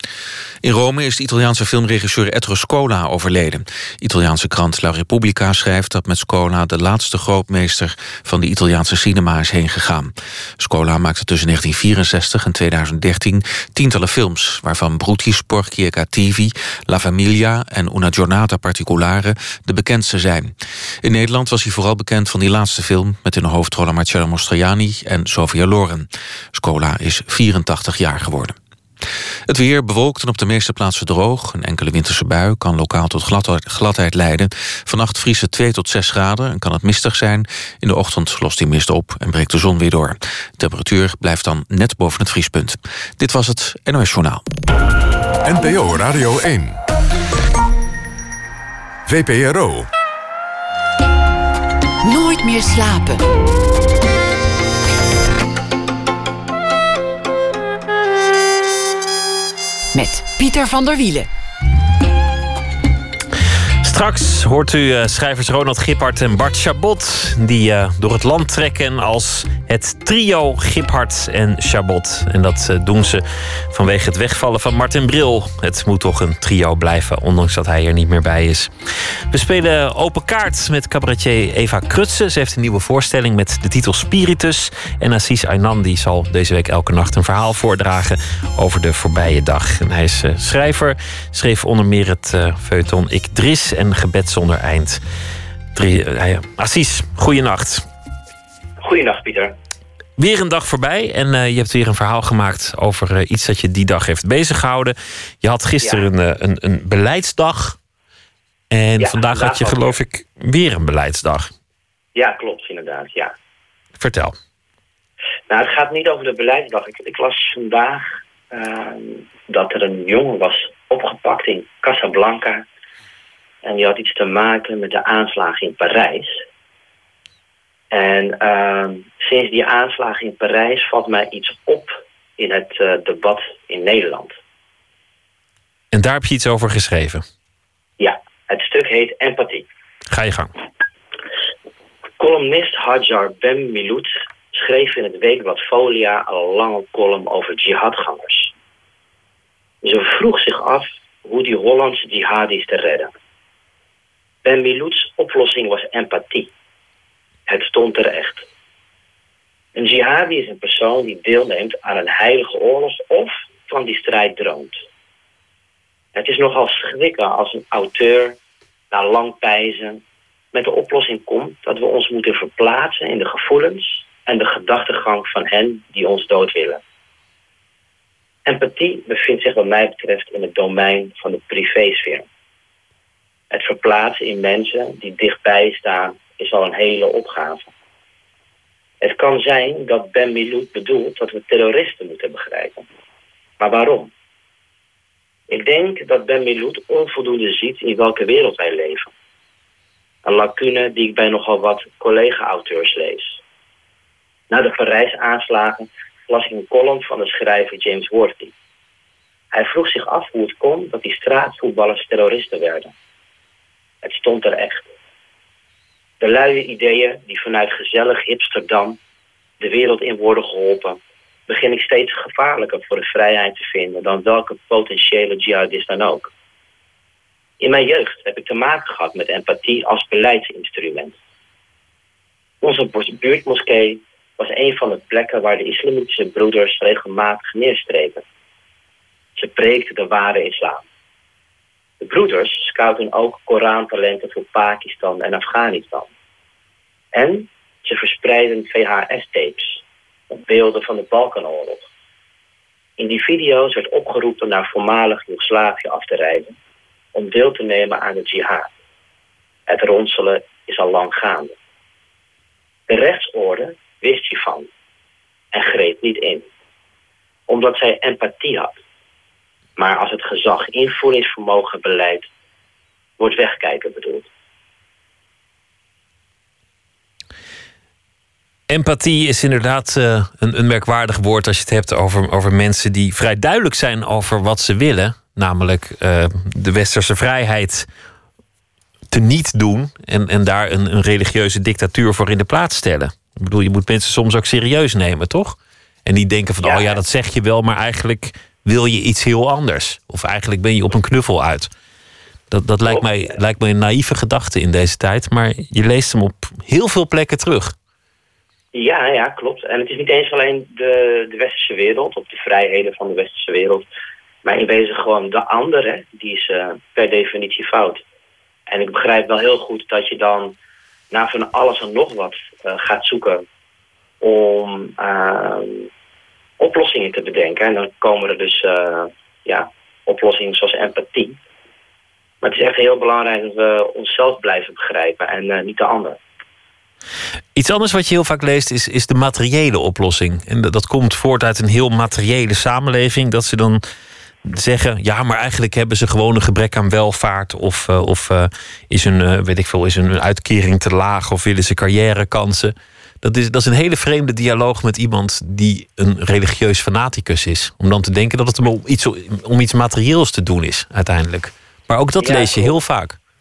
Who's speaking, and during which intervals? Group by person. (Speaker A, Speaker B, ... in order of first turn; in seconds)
Speaker A: 0.6-28.6, 29.5-44.4
Speaker B: 45.4-46.8, 49.1-49.9
Speaker C: 52.0-53.2, 59.9-61.3
Speaker D: 63.8-78.7, 79.3-95.0, 95.8-97.9, 100.2-107.8, 108.7-111.5, 114.0-114.3, 135.9-137.2, 140.1-140.5, 278.7-287.9, 289.1-301.7, 302.5-307.7, 337.6-343.8, 344.4-363.2
Speaker E: 98.8-99.5, 109.0-110.0, 112.2-113.3, 115.5-122.6, 123.6-126.4, 127.9-134.3, 138.0-139.7, 142.2-148.5, 149.8-153.1, 154.4-156.5, 157.5-158.4, 159.8-164.8, 166.2-168.4, 168.9-170.0, 170.5-176.8, 178.5-182.3, 183.5-187.7, 189.0-192.9, 193.6-194.1, 195.5-199.1, 200.2-203.4, 204.5-208.5, 209.5-212.9, 214.0-214.8, 216.2-219.0, 219.6-226.3, 227.6-231.2, 232.6-238.2, 239.4-240.8, 242.0-246.1, 247.1-251.8, 253.0-256.6, 257.1-258.7, 259.7-261.5, 262.9-264.7, 265.5-266.5, 267.5-268.8, 269.8-272.3, 273.2-274.3, 296.6-297.0, 308.7-313.9, 314.4-318.0, 318.7-320.6, 321.1-323.4, 324.2-325.9, 326.6-331.4, 332.4-336.2, 362.2-362.8